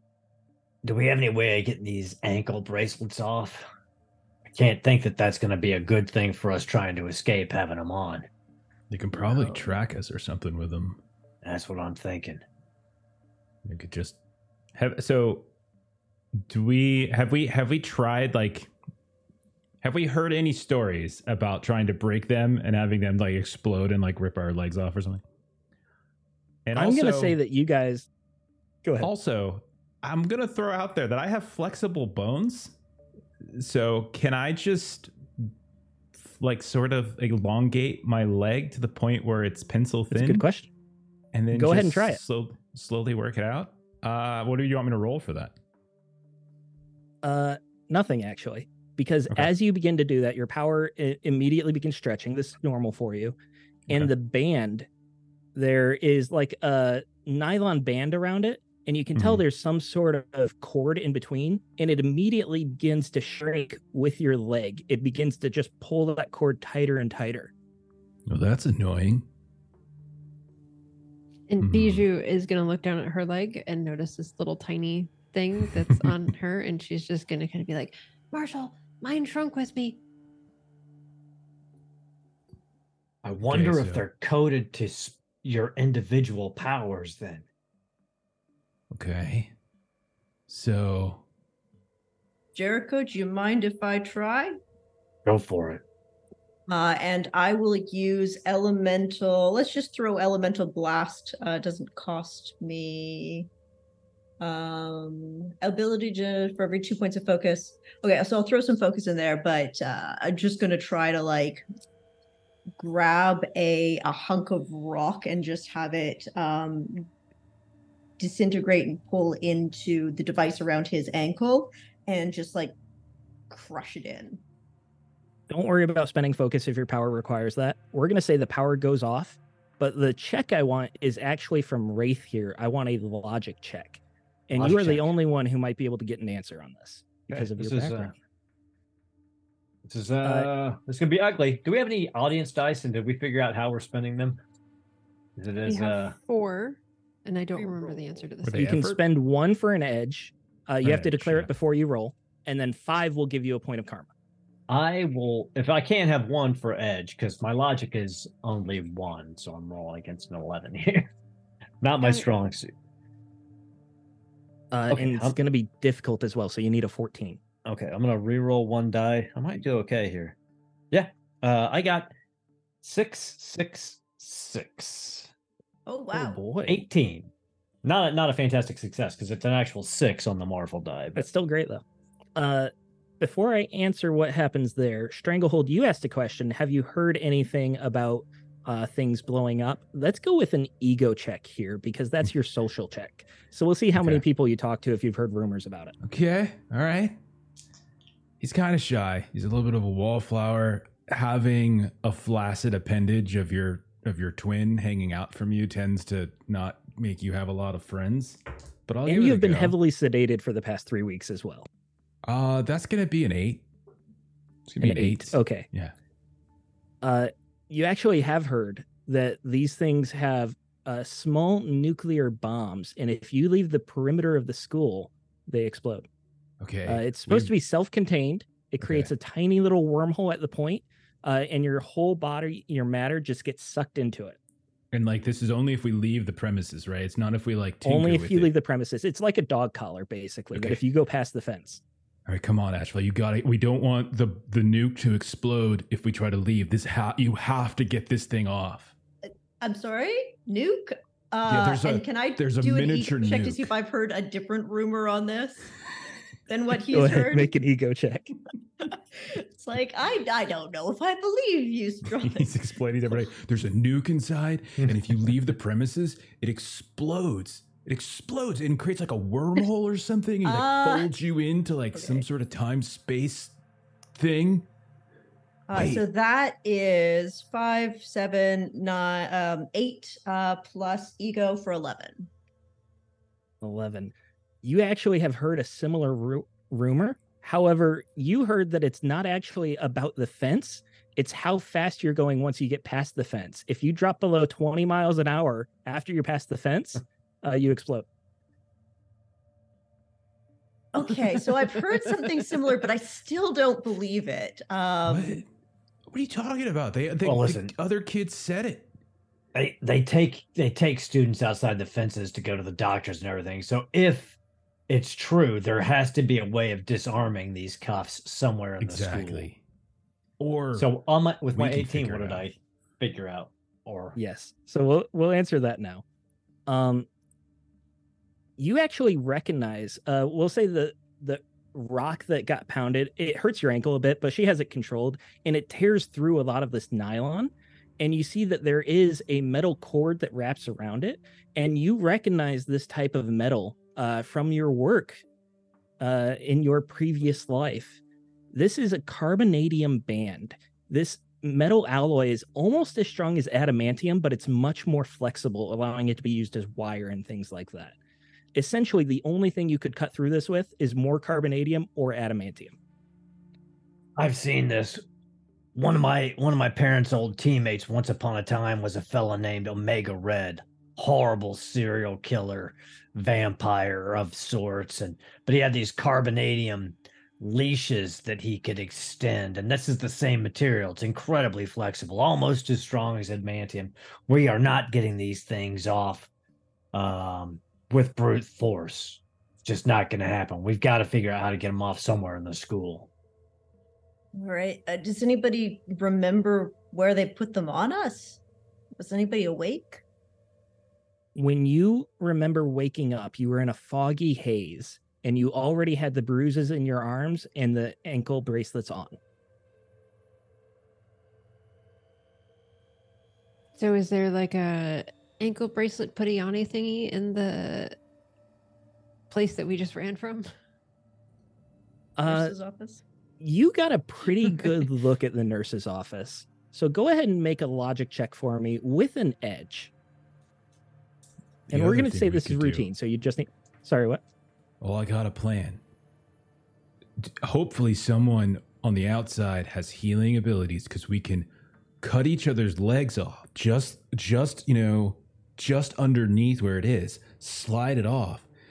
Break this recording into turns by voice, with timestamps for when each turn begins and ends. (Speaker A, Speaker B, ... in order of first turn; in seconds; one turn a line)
Speaker A: 0.8-3.6
Speaker A: 4.5-8.3
Speaker B: 8.9-11.0
Speaker A: 11.4-12.4
Speaker B: 13.7-14.2
Speaker B: 14.8-15.5
Speaker B: 16.5-18.7
Speaker B: 19.8-25.2
Speaker B: 26.7-27.4
Speaker C: 26.7-28.1
Speaker C: 28.8-29.1
Speaker B: 29.0-32.8
Speaker B: 33.5-35.5
Speaker B: 36.1-40.4
Speaker C: 40.1-40.7
Speaker B: 41.3-45.5
Speaker C: 41.5-42.2
Speaker C: 47.2-53.4
Speaker C: 53.9-54.9
Speaker C: 55.5-67.5
Speaker B: 59.2-59.4
Speaker B: 68.3-69.3
Speaker D: 71.5-80.0
Speaker B: 71.6-72.1
Speaker A: 83.2-87.5
Speaker B: 83.5-84.0
Speaker B: 88.9-89.5
Speaker B: 90.5-91.2
Speaker E: 92.5-94.6
Speaker A: 95.3-95.8
Speaker E: 96.7-103.5
Speaker E: 104.4-111.6
Speaker E: 112.8-117.1
Speaker E: 118.2-122.7
Speaker E: 123.5-124.4
Speaker C: 125.5-138.2
Speaker A: 134.6-135.1
Speaker A: 137.3-138.1
Speaker A: 139.9-144.4
Speaker C: 140.2-140.5
Speaker A: 145.4-146.2
Speaker D: 145.7-148.8
Speaker E: 147.6-148.3
Speaker B: 148.4-149.0
Speaker C: 148.5-154.1
Speaker B: 150.8-151.5
Speaker A: 154.7-161.1
Speaker A: 161.8-162.7
Speaker C: 164.7-167.4
Speaker A: 164.9-165.4
Speaker A: 167.7-170.4
Speaker A: 170.9-172.1
Speaker A: 172.8-175.3
Speaker E: 175.9-176.4
Speaker C: 176.1-176.8
Speaker A: 176.7-177.3
Speaker A: 177.8-181.2
Speaker C: 181.2-181.8
Speaker C: 182.4-195.9
Speaker B: 194.0-194.2
Speaker B: 196.0-197.2
Speaker B: 198.4-209.8
Speaker C: 209.1-211.7
Speaker B: 212.2-213.6
Speaker B: 214.7-215.9
Speaker C: 214.8-215.7
Speaker C: 217.0-226.1
Speaker B: 226.6-227.5
Speaker C: 226.8-234.4
Speaker B: 228.8-229.1
Speaker B: 234.9-238.5
Speaker C: 237.8-241.8
Speaker B: 240.5-240.8
Speaker B: 242.3-248.9
Speaker E: 249.6-255.7
Speaker B: 251.5-253.7
Speaker E: 256.5-257.5
Speaker C: 256.9-258.3
Speaker E: 259.2-262.5
Speaker B: 262.0-273.6
Speaker E: 270.4-271.1
Speaker E: 271.9-272.2
Speaker B: 274.1-274.7
Speaker E: 275.7-282.3
Speaker B: 275.7-276.0
Speaker C: 283.6-298.1
Speaker E: 300.9-305.4
Speaker B: 305.1-305.5
Speaker B: 306.1-308.9
Speaker A: 307.2-307.7
Speaker A: 309.5-314.4
Speaker A: 314.9-319.5
Speaker B: 318.8-319.6
Speaker B: 320.4-320.9
Speaker A: 320.8-324.2
Speaker B: 321.6-322.5
Speaker C: 324.2-326.0
Speaker C: 326.7-327.1
Speaker C: 328.6-345.2
Speaker C: 346.0-348.0
Speaker C: 348.5-358.0
Speaker C: 358.6-362.8
Speaker A: 364.2-365.0
Speaker A: 365.8-386.3
Speaker A: 386.9-393.1
Speaker E: 394.3-398.4
Speaker E: 399.0-400.0
Speaker C: 401.4-409.2
Speaker D: 413.8-418.0
Speaker D: 419.3-420.5
Speaker C: 422.2-422.5
Speaker E: 422.2-423.0
Speaker C: 423.4-429.9
Speaker B: 431.7-432.9
Speaker C: 431.7-434.2
Speaker B: 434.8-435.8
Speaker B: 437.2-441.5
Speaker B: 442.0-448.5